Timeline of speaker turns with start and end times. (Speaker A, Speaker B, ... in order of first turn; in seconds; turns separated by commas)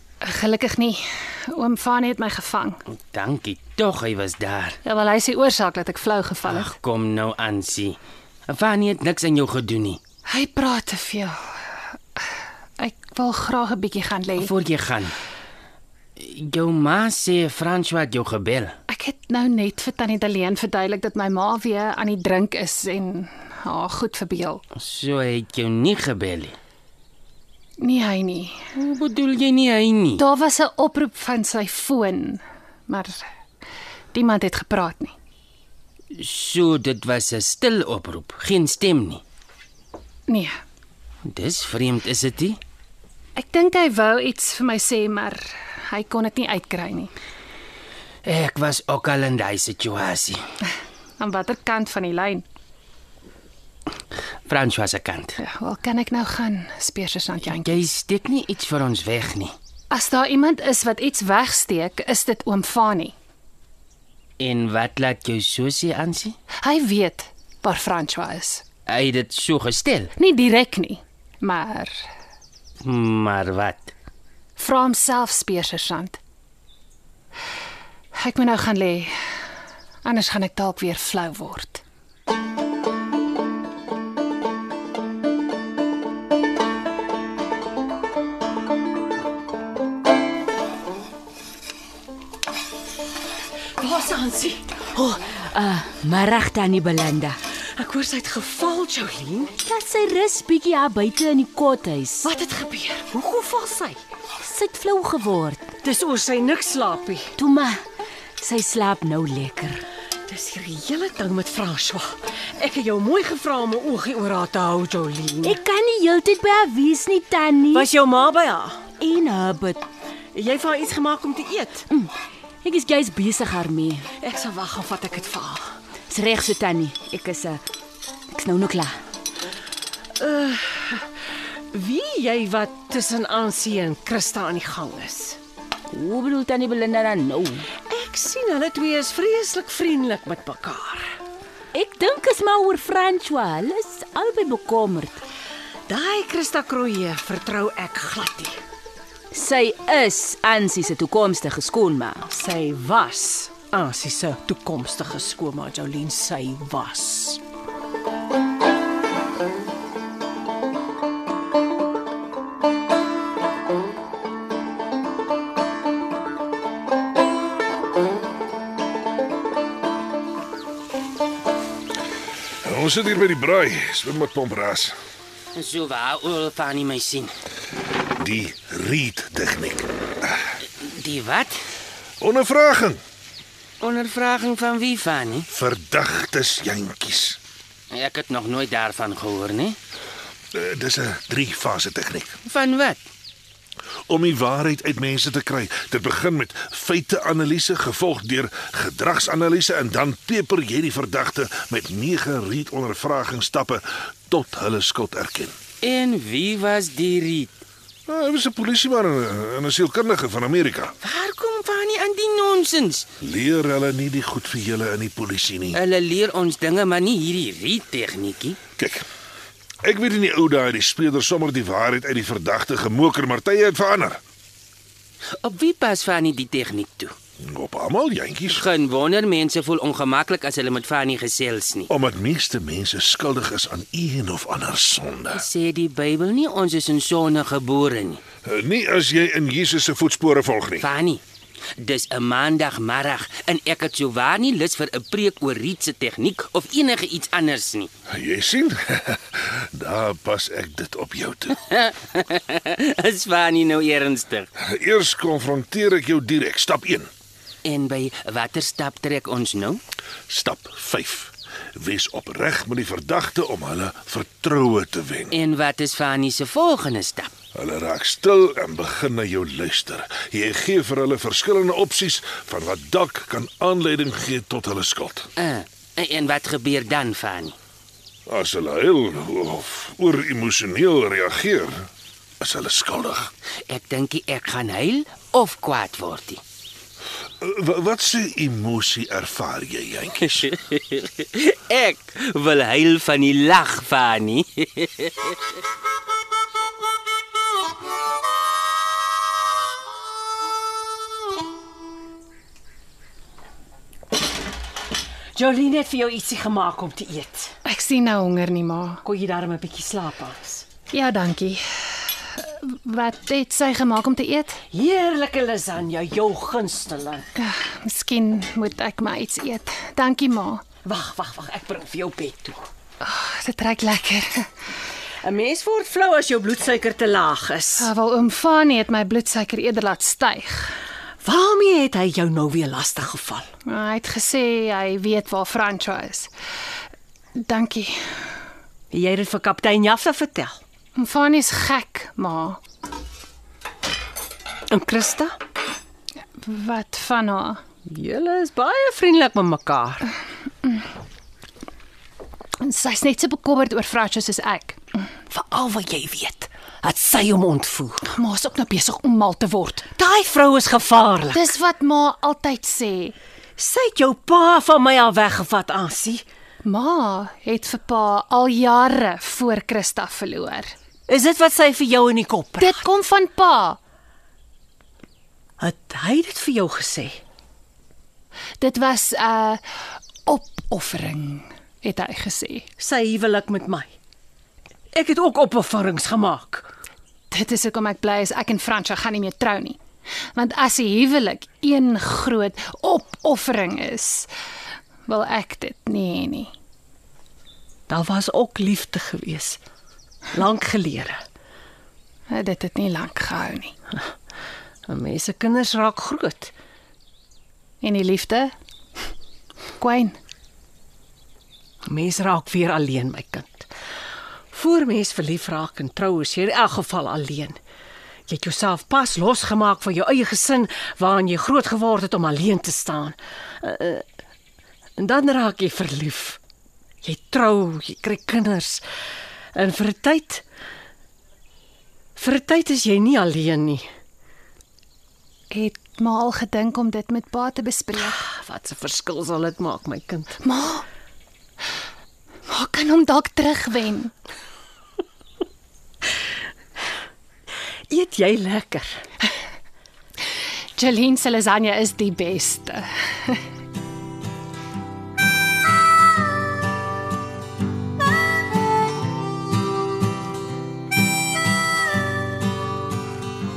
Speaker A: 0.2-2.8, Speaker B: 3.1-4.8, Speaker A: 4.8-6.7, Speaker B: 6.5-8.0, Speaker B: 8.5-10.0, Speaker A: 10.3-11.6, Speaker A: 12.8-14.5, Speaker B: 14.4-15.1, Speaker B: 16.2-18.7, Speaker A: 18.9-24.6, Speaker B: 24.8-26.6, Speaker A: 27.8-28.7, Speaker B: 28.8-30.2, Speaker A: 30.2-33.2, Speaker A: 34.1-35.1, Speaker B: 36.1-39.2, Speaker A: 40.3-40.5, Speaker B: 41.2-42.6, Speaker A: 43.4-47.1, Speaker B: 48.2-50.4, Speaker A: 51.2-52.5, Speaker B: 54.5-55.4, Speaker A: 55.4-57.8, Speaker B: 57.5-59.5, Speaker A: 59.9-63.1, Speaker B: 64.4-66.3, Speaker A: 66.6-68.6, Speaker B: 68.8-70.1, Speaker A: 70.2-71.9, Speaker B: 72.8-73.9, Speaker A: 74.6-76.2, Speaker A: 78.1-79.2, Speaker A: 80.0-81.8, Speaker C: 93.8-94.9, Speaker D: 94.9-97.4, Speaker C: 97.7-99.6, Speaker D: 99.6-102.3, Speaker C: 102.2-104.0, Speaker D: 104.4-105.7, Speaker C: 105.8-107.3, Speaker D: 107.4-107.8, Speaker D: 108.4-109.8, Speaker C: 110.3-115.6, Speaker D: 115.4-117.9, Speaker C: 117.7-118.9, Speaker D: 119.0-119.8, Speaker C: 120.3-121.8, Speaker D: 121.9-124.1, Speaker C: 124.1-125.7, Speaker D: 126.1-127.6, Speaker D: 128.3-129.0, Speaker C: 130.2-131.1, Speaker C: 131.7-135.4, Speaker D: 135.9-137.7, Speaker C: 137.8-141.1, Speaker D: 141.7-145.2, Speaker C: 145.9-148.6, Speaker D: 149.3-152.2, Speaker C: 152.3-157.4, Speaker E: 172.6-174.9, Speaker B: 175.5-177.3, Speaker E: 178.2-180.4, Speaker B: 180.8-181.6, Speaker E: 182.2-183.0, Speaker B: 183.8-185.5, Speaker E: 185.5-187.4, Speaker B: 187.9-189.8, Speaker E: 190.5-192.4, Speaker B: 192.4-193.0, Speaker E: 194.1-205.6, Speaker B: 205.8-207.5, Speaker E: 208.1-210.9, Speaker B: 211.0-213.1, Speaker E: 213.2-215.8, Speaker B: 215.7-218.6, Speaker E: 218.8-219.0, Speaker E: 219.8-224.2, Speaker B: 225.4-227.1, Speaker E: 227.4-228.6, Speaker B: 228.5-231.9, Speaker E: 231.9-235.4, Speaker B: 235.3-238.2, Speaker E: 238.4-240.8, Speaker B: 240.8-241.2, Speaker B: 241.8-247.9, Speaker E: 248.1-251.6, Speaker B: 251.7-254.5, Speaker E: 254.6-257.1, Speaker B: 257.6-259.8, Speaker E: 260.3-265.3, Speaker B: 265.3-267.3, Speaker E: 267.5-275.3, Speaker B: 275.4-277.5, Speaker E: 278.3-281.9, Speaker E: 282.4-283.3, Speaker B: 283.7-286.4, Speaker E: 287.4-290.4, Speaker B: 290.4-295.4, Speaker C: 305.3-307.5, Speaker A: 307.6-309.0, Speaker C: 309.0-310.6, Speaker A: 310.9-314.6, Speaker C: 314.7-317.3, Speaker A: 317.4-320.6, Speaker C: 320.8-322.6, Speaker A: 323.0-324.5, Speaker C: 325.2-327.9, Speaker A: 327.8-330.8, Speaker C: 331.2-333.5, Speaker A: 333.6-336.3, Speaker A: 337.4-338.0, Speaker C: 338.9-340.6, Speaker A: 340.9-342.6, Speaker C: 344.7-345.4, Speaker A: 346.4-347.6, Speaker C: 347.9-350.1, Speaker A: 352.6-354.8, Speaker C: 355.3-358.0, Speaker A: 358.0-359.9, Speaker C: 360.0-361.5, Speaker A: 361.3-363.1, Speaker C: 363.6-366.2, Speaker A: 366.6-370.7, Speaker C: 371.1-372.8, Speaker A: 372.6-373.8, Speaker C: 375.6-377.2, Speaker A: 378.6-379.6, Speaker A: 380.2-382.7, Speaker C: 382.8-383.9, Speaker C: 384.9-386.6, Speaker A: 387.3-389.8, Speaker A: 390.3-394.3, Speaker A: 395.1-396.5, Speaker C: 397.9-399.6, Speaker C: 400.3-401.2, Speaker A: 402.3-403.7, Speaker C: 404.9-406.5, Speaker A: 407.8-408.5, Speaker A: 409.8-410.2, Speaker C: 411.8-413.7, Speaker C: 414.5-417.6, Speaker C: 418.3-424.0, Speaker C: 425.0-426.4, Speaker C: 427.0-428.8, Speaker C: 429.5-430.4, Speaker C: 432.2-433.9, Speaker A: 435.5-438.2, Speaker C: 438.0-440.4, Speaker A: 440.4-440.8, Speaker A: 442.5-444.1, Speaker C: 447.9-449.0, Speaker A: 450.8-453.4